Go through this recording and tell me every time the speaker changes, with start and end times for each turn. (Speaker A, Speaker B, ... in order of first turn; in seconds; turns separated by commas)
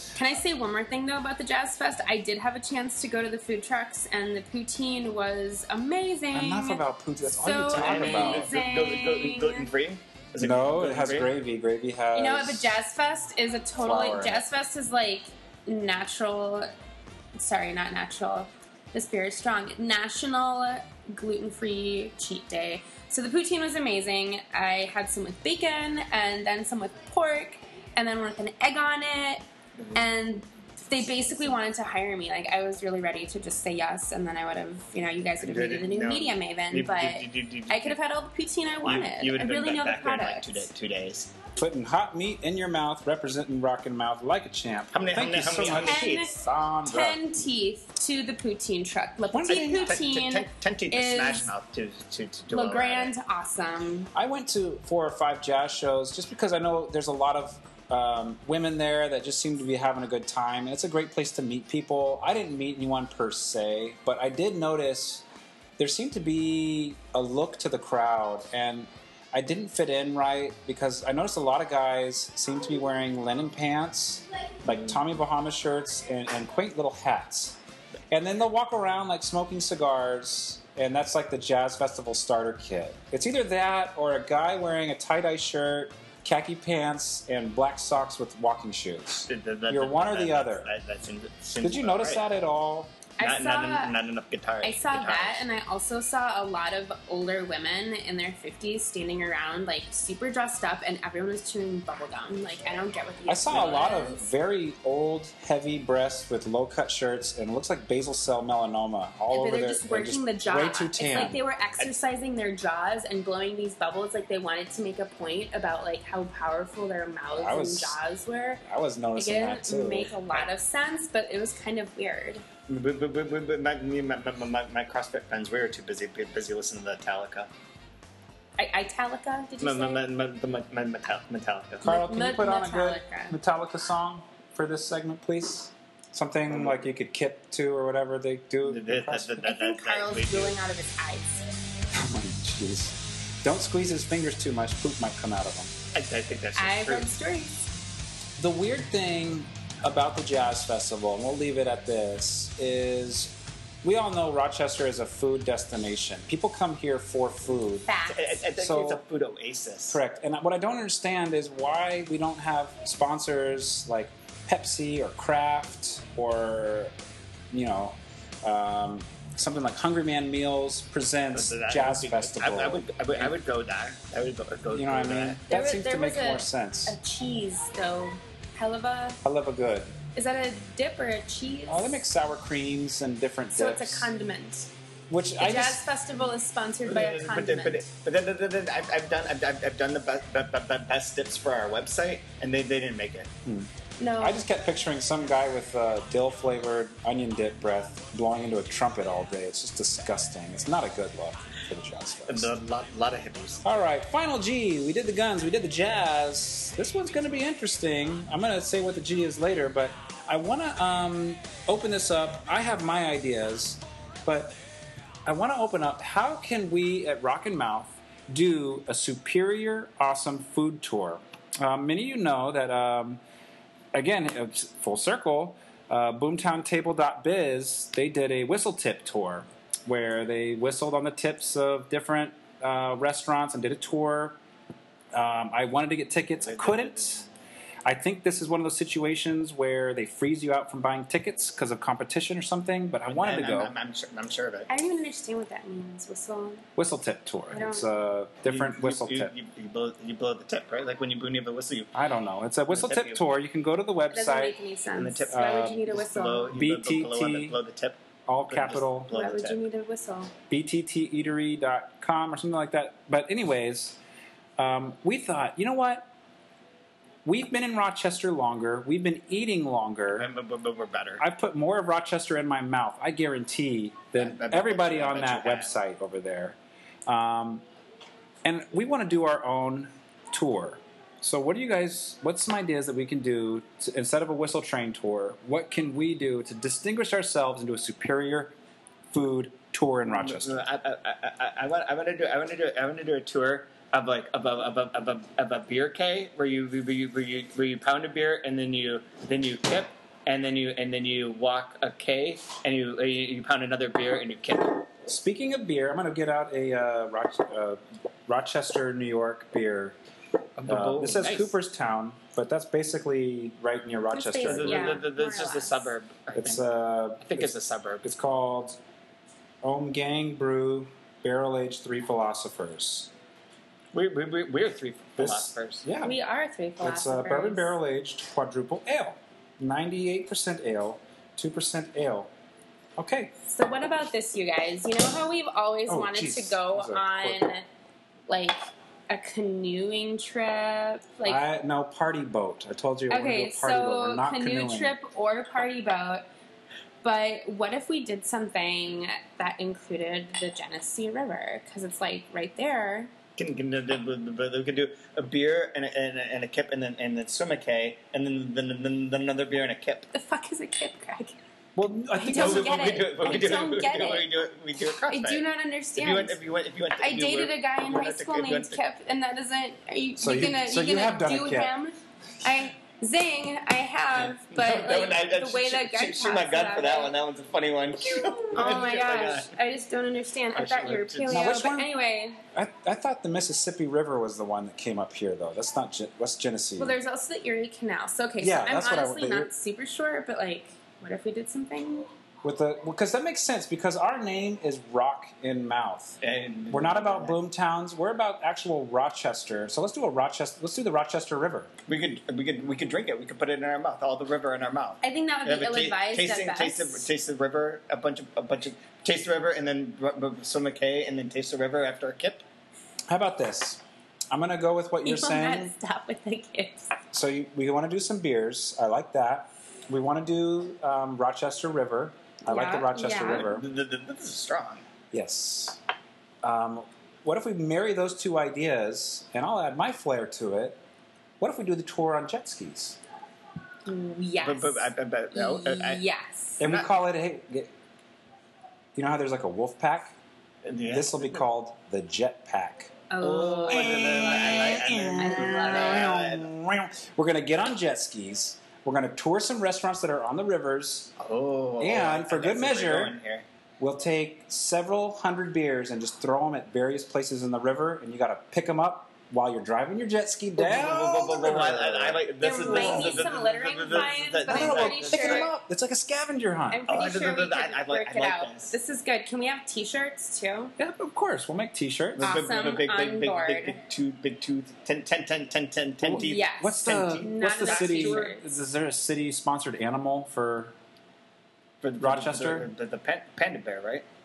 Speaker A: 0.2-9.7, Speaker B: 6.3-8.5, Speaker C: 7.7-11.3, Speaker B: 10.4-12.8, Speaker A: 12.2-16.7, Speaker B: 13.8-14.4, Speaker A: 17.4-40.7, Speaker C: 35.4-38.0, Speaker C: 38.8-41.3, Speaker B: 41.6-47.2, Speaker C: 44.9-46.3, Speaker A: 45.7-51.5, Speaker B: 49.3-50.0, Speaker C: 49.5-53.1, Speaker A: 52.5-54.1, Speaker B: 54.1-65.2, Speaker B: 65.8-77.6, Speaker B: 78.1-90.7, Speaker C: 89.3-92.2, Speaker B: 91.6-92.9, Speaker A: 93.2-94.0, Speaker C: 93.2-95.5, Speaker A: 94.6-104.3, Speaker B: 103.3-111.4, Speaker A: 109.3-118.6, Speaker B: 117.3-118.0, Speaker B: 118.6-120.1, Speaker A: 119.2-122.5, Speaker C: 122.7-127.5, Speaker A: 128.6-130.0, Speaker C: 129.6-131.8, Speaker B: 131.8-139.4, Speaker A: 131.8-133.4, Speaker C: 136.5-136.8, Speaker C: 138.7-140.6, Speaker A: 139.4-141.5, Speaker B: 141.9-145.8, Speaker C: 145.9-147.1, Speaker A: 146.6-147.7, Speaker B: 148.4-157.9, Speaker A: 157.9-158.4, Speaker C: 158.1-160.0, Speaker B: 158.6-159.0, Speaker B: 159.9-166.9, Speaker B: 167.5-173.3, Speaker C: 171.3-175.4, Speaker B: 174.7-177.0, Speaker A: 175.5-179.2, Speaker B: 179.2-180.0, Speaker A: 180.2-182.0, Speaker B: 181.7-184.1, Speaker A: 183.5-184.7, Speaker B: 185.1-185.8, Speaker A: 185.4-187.8, Speaker C: 186.9-193.3, Speaker B: 193.4-202.5, Speaker A: 194.0-194.4, Speaker C: 202.3-203.7, Speaker B: 203.6-214.6, Speaker B: 215.3-223.2, Speaker B: 223.9-234.4, Speaker B: 235.1-237.2, Speaker C: 236.4-237.3, Speaker B: 237.8-243.7, Speaker C: 243.1-244.7, Speaker A: 244.7-246.7, Speaker B: 246.8-249.3, Speaker A: 247.5-247.9, Speaker C: 248.4-251.9, Speaker B: 251.9-254.6, Speaker C: 252.7-253.3, Speaker A: 254.1-256.5, Speaker C: 254.9-259.6, Speaker B: 255.3-255.8, Speaker B: 256.5-257.6, Speaker B: 258.3-259.1, Speaker A: 259.1-260.3, Speaker B: 260.5-264.0, Speaker B: 264.6-266.1, Speaker B: 267.2-270.3, Speaker C: 270.1-271.2, Speaker B: 271.2-277.6, Speaker C: 274.1-275.7, Speaker B: 278.4-288.5, Speaker B: 289.1-290.6, Speaker C: 290.1-304.9, Speaker B: 305.1-310.0, Speaker C: 310.6-311.6, Speaker B: 310.7-315.0, Speaker A: 314.1-315.9, Speaker C: 314.4-316.7, Speaker B: 316.4-318.8, Speaker C: 317.2-318.1, Speaker B: 319.6-323.1, Speaker C: 323.9-325.8, Speaker B: 325.2-326.2, Speaker A: 326.0-327.7, Speaker B: 326.8-332.3, Speaker B: 333.0-333.3, Speaker A: 333.5-337.6, Speaker B: 335.9-337.5, Speaker A: 338.3-341.4, Speaker B: 341.2-344.9, Speaker A: 343.1-346.3, Speaker A: 347.0-353.1, Speaker C: 353.4-360.1, Speaker A: 360.1-361.4, Speaker B: 361.8-362.9, Speaker A: 362.1-364.3, Speaker C: 362.3-365.4, Speaker A: 365.1-366.4, Speaker C: 366.0-368.8, Speaker A: 367.0-377.2, Speaker B: 370.2-371.7, Speaker C: 374.1-379.5, Speaker A: 378.0-382.4, Speaker C: 380.6-381.5, Speaker B: 381.3-381.9, Speaker B: 382.5-386.9, Speaker A: 386.8-392.1, Speaker B: 388.4-389.5, Speaker B: 392.4-396.2, Speaker C: 396.2-397.4, Speaker B: 396.7-401.7, Speaker C: 401.9-412.4, Speaker A: 405.0-407.1, Speaker B: 413.1-415.7, Speaker A: 415.0-416.9, Speaker B: 417.1-423.7, Speaker A: 422.5-423.4, Speaker C: 423.2-424.9, Speaker B: 425.1-425.8, Speaker B: 426.4-430.8, Speaker B: 431.4-433.0, Speaker A: 433.9-436.6, Speaker C: 434.4-436.0, Speaker C: 436.6-436.9, Speaker B: 436.6-437.7, Speaker B: 438.9-440.1, Speaker C: 440.6-441.4, Speaker B: 440.9-442.9, Speaker A: 443.1-446.1, Speaker C: 443.2-446.5, Speaker B: 443.6-451.1, Speaker C: 451.2-453.4, Speaker B: 451.8-453.2, Speaker B: 453.8-463.3, Speaker C: 460.6-465.5, Speaker A: 462.4-465.5, Speaker B: 464.5-466.8, Speaker A: 466.7-470.8, Speaker C: 466.9-468.7, Speaker B: 470.8-472.4, Speaker C: 472.2-478.2, Speaker A: 472.2-473.8, Speaker B: 476.0-480.7, Speaker A: 476.2-478.4, Speaker C: 481.8-484.1, Speaker B: 482.0-482.7